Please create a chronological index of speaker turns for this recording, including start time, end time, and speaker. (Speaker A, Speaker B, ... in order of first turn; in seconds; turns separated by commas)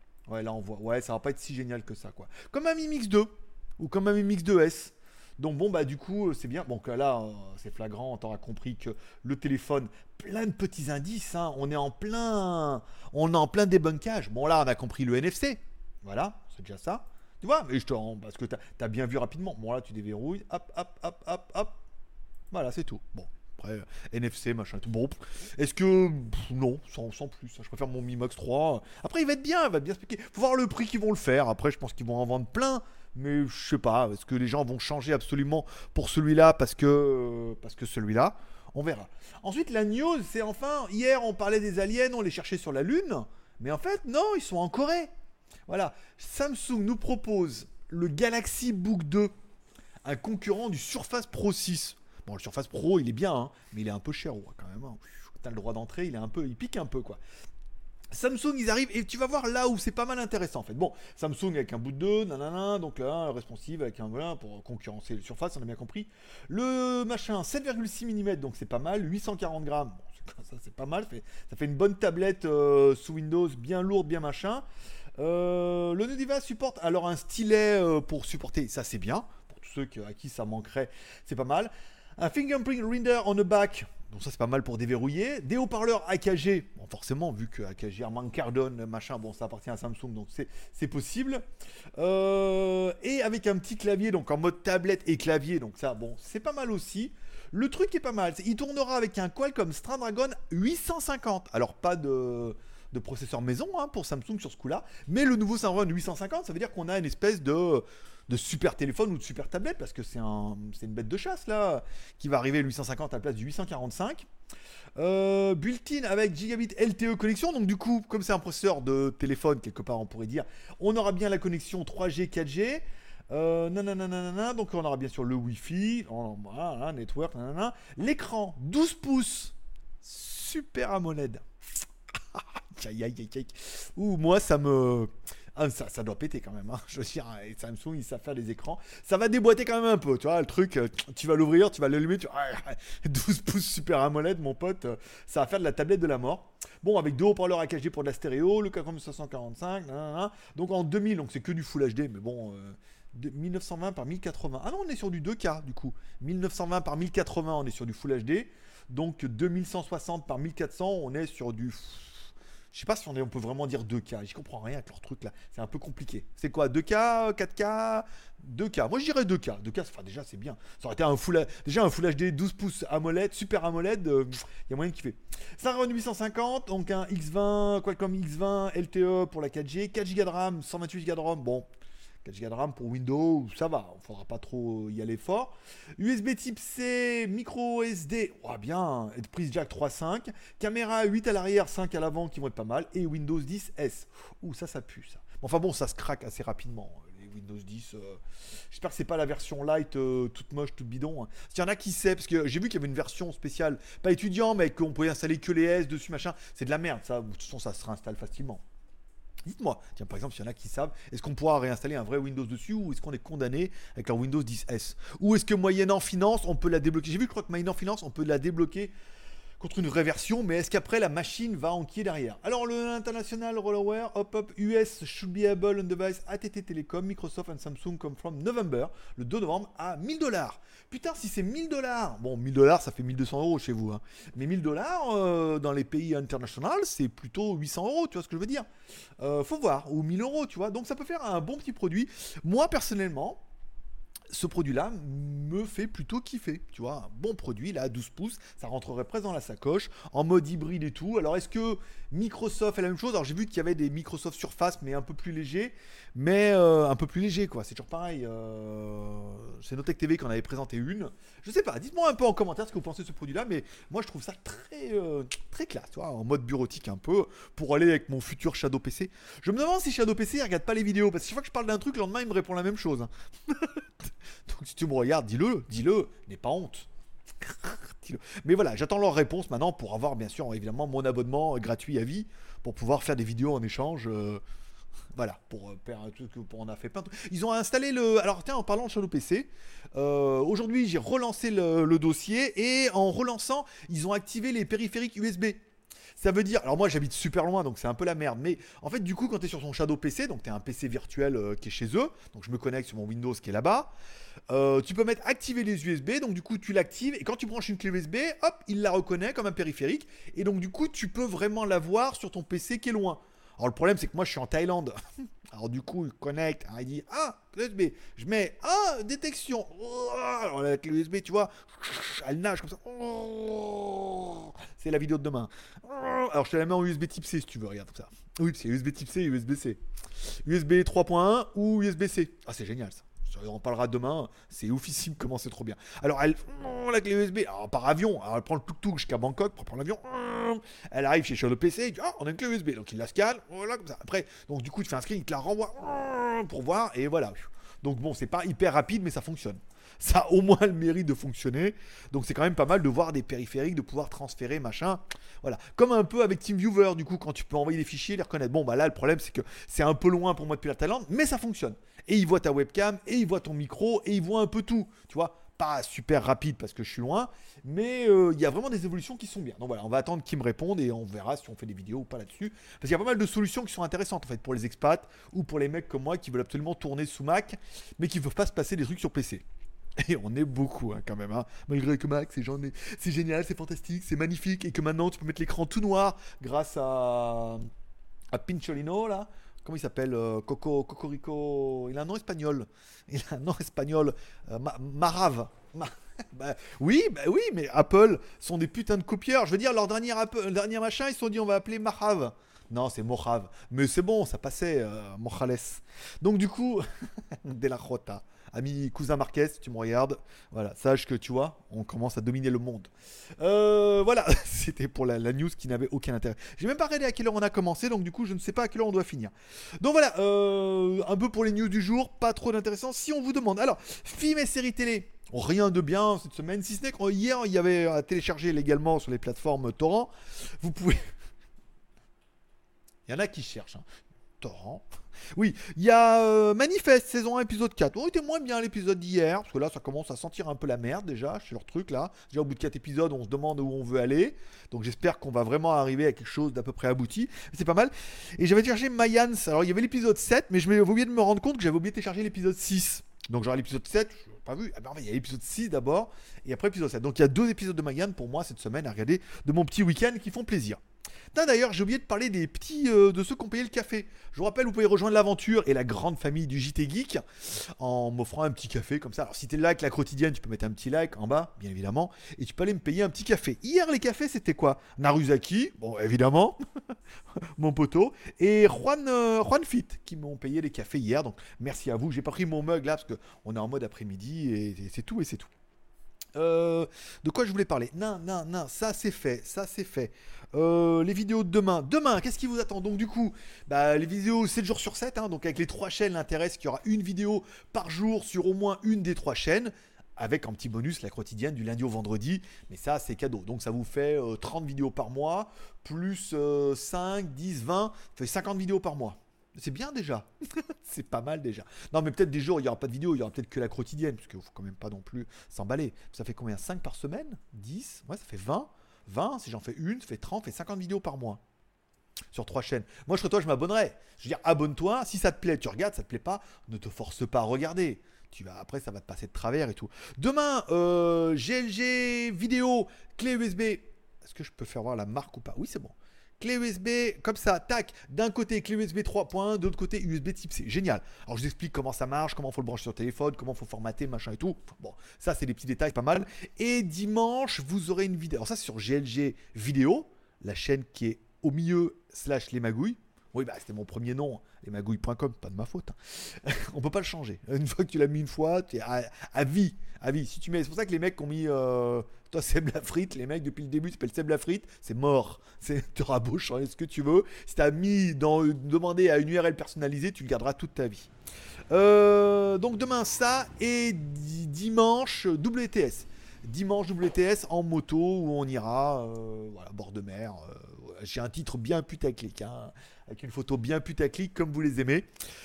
Speaker A: 0.3-21.8, Speaker A: 22.5-45.1, Speaker A: 45.7-49.3, Speaker A: 50.0-57.2, Speaker A: 58.1-74.6, Speaker A: 75.2-91.4, Speaker A: 92.0-114.3, Speaker A: 115.0-131.4, Speaker A: 132.3-181.7, Speaker A: 182.2-208.6, Speaker A: 209.4-218.9, Speaker A: 219.6-238.7, Speaker A: 239.2-243.4, Speaker A: 244.3-273.8, Speaker A: 274.5-276.9, Speaker A: 277.4-284.4, Speaker A: 285.1-295.6, Speaker A: 296.1-303.9, Speaker A: 304.5-314.9, Speaker A: 315.5-379.4, Speaker A: 380.0-387.7, Speaker A: 388.3-406.8, Speaker A: 407.4-431.1, Speaker A: 433.1-433.8, Speaker A: 434.4-460.8, Speaker A: 461.3-476.6, Speaker A: 477.6-485.5, Speaker A: 486.3-521.4, Speaker A: 522.3-571.1, Speaker A: 571.7-585.1